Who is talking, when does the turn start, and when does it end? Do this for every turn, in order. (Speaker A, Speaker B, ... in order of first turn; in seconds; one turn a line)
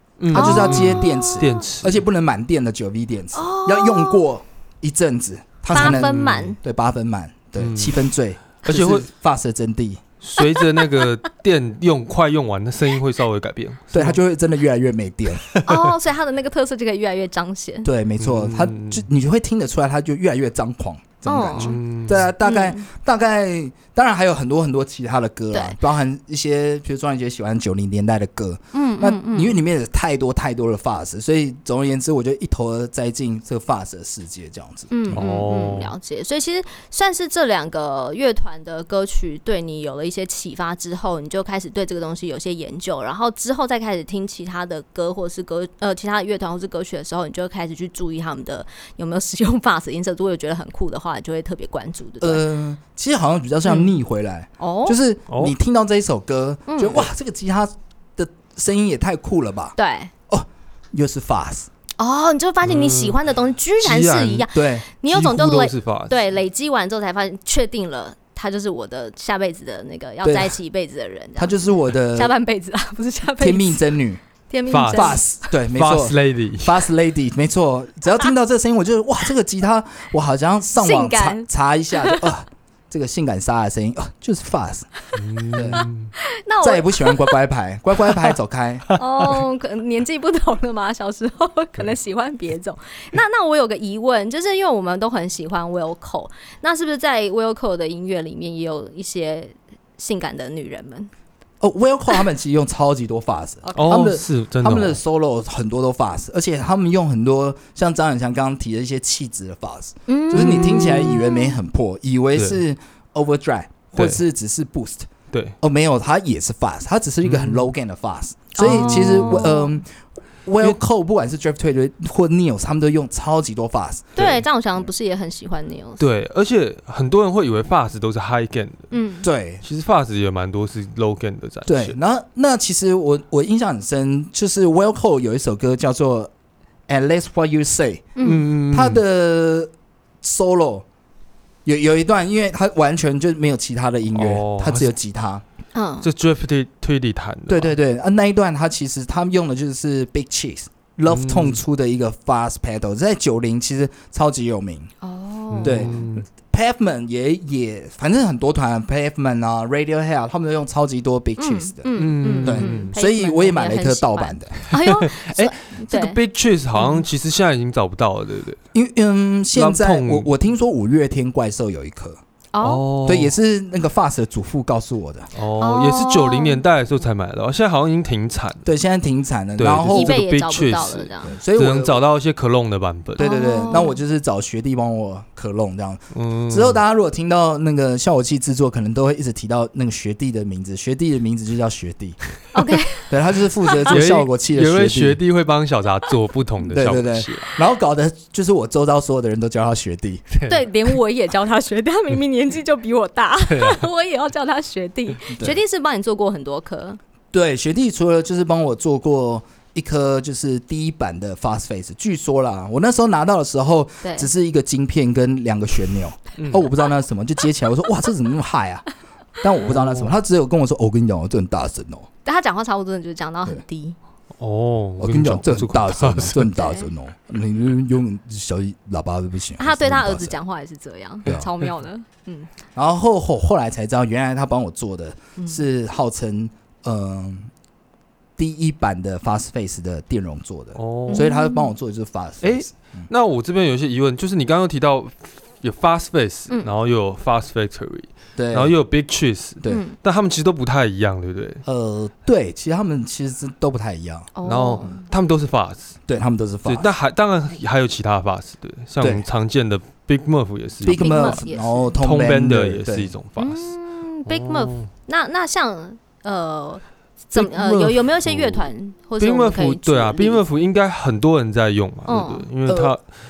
Speaker A: 0.2-2.0
Speaker B: 0.3-10.0
Speaker C: 0.3-1.6
Speaker C: 3.3-4.2
Speaker C: 5.7-6.6
Speaker A: 5.7-6.5
Speaker A: 7.6-8.1
Speaker A: 8.6-9.1
Speaker A: 10.2-14.2
Speaker C: 10.4-11.1
Speaker B: 13.9-15.5
Speaker A: 15.4-15.8
Speaker C: 15.6-17.9
Speaker B: 17.8-35.2
Speaker A: 18.2-19.1
Speaker C: 21.2-21.8
Speaker A: 21.6-22.3
Speaker C: 22.4-22.9
Speaker C: 25.5-25.8
Speaker C: 28.7-29.6
Speaker C: 34.9-52.4
Speaker A: 35.1-35.9
Speaker B: 52.2-59.7
Speaker C: 53.6-54.0
Speaker C: 54.6-55.0
Speaker A: 55.3-55.5
Speaker C: 56.7-57.0
Speaker C: 59.8-60.1
Speaker B: 60.3-61.7
Speaker C: 62.0-73.9
Speaker A: 62.6-63.2
Speaker A: 63.8-64.5
Speaker B: 64.5-64.8
Speaker A: 65.1-66.2
Speaker B: 70.2-70.6
Speaker B: 71.4-72.3
Speaker B: 73.4-74.2
Speaker C: 74.5-75.2
Speaker A: 74.7-76.9
Speaker B: 74.9-84.9
Speaker C: 80.8-82.2
Speaker A: 85.2-86.1
Speaker B: 85.5-85.8
Speaker C: 85.7-87.3
Speaker B: 86.6-88.9
Speaker C: 88.9-101.1
Speaker B: 101.6-115.1
Speaker C: 103.6-104.0
Speaker A: 103.8-105.0
Speaker C: 110.1-111.5
Speaker A: 110.3-111.2
Speaker A: 114.0-114.2
Speaker B: 115.6-119.9
Speaker A: 117.2-117.7
Speaker C: 118.5-119.7
Speaker A: 118.6-119.6
Speaker B: 120.4-124.2
Speaker C: 124.2-126.0
Speaker A: 126.0-128.9
Speaker C: 128.9-129.3
Speaker B: 129.2-129.6
Speaker A: 129.6-131.9
Speaker B: 131.7-136.3
Speaker B: 136.9-139.7
Speaker C: 138.2-138.4
Speaker A: 138.2-139.0
Speaker B: 140.2-140.8
Speaker B: 141.6-145.4
Speaker A: 144.1-144.9
Speaker C: 145.7-146.1
Speaker A: 146.0-147.7
Speaker B: 147.5-154.9
Speaker A: 151.1-151.6
Speaker C: 155.0-156.0
Speaker A: 155.5-156.2
Speaker B: 155.6-164.7
Speaker C: 161.4-166.2
Speaker A: 162.0-162.9
Speaker A: 164.7-168.6
Speaker C: 166.8-167.0
Speaker B: 168.7-172.2
Speaker A: 169.5-170.3
Speaker C: 172.5-172.8
Speaker A: 172.6-173.3
Speaker B: 173.0-175.3
Speaker A: 175.3-178.7
Speaker C: 175.6-176.6
Speaker B: 178.6-180.2
Speaker A: 179.6-183.3
Speaker C: 179.9-181.3
Speaker B: 181.3-182.0
Speaker C: 183.2-184.0
Speaker B: 183.2-192.2
Speaker A: 186.1-186.8
Speaker C: 192.5-193.1
Speaker B: 193.1-195.2
Speaker A: 193.8-197.5
Speaker B: 196.7-200.3
Speaker A: 200.3-200.6
Speaker C: 200.5-207.0
Speaker A: 203.5-203.9
Speaker B: 205.3-205.6
Speaker B: 207.3-218.8
Speaker C: 214.0-214.3
Speaker A: 216.4-216.7
Speaker B: 219.4-222.1
Speaker A: 219.7-220.1
Speaker C: 222.2-223.9
Speaker A: 224.4-226.5
Speaker B: 225.0-230.3
Speaker C: 226.5-226.9
Speaker C: 229.6-232.5
Speaker B: 232.7-237.5
Speaker C: 235.4-235.6
Speaker B: 238.4-243.1
Speaker A: 240.8-241.3
Speaker C: 241.1-241.7
Speaker A: 242.4-251.6
Speaker B: 248.4-248.8
Speaker C: 249.7-249.9
Speaker B: 251.7-254.3
Speaker C: 254.3-255.1
Speaker A: 254.4-256.0
Speaker B: 256.1-256.9
Speaker A: 256.6-261.4
Speaker B: 259.0-259.2
Speaker B: 260.8-263.1
Speaker C: 260.9-261.9
Speaker A: 262.0-263.7
Speaker C: 263.4-270.4
Speaker A: 264.3-264.9
Speaker A: 267.3-273.0
Speaker C: 272.1-272.5
Speaker B: 272.6-272.9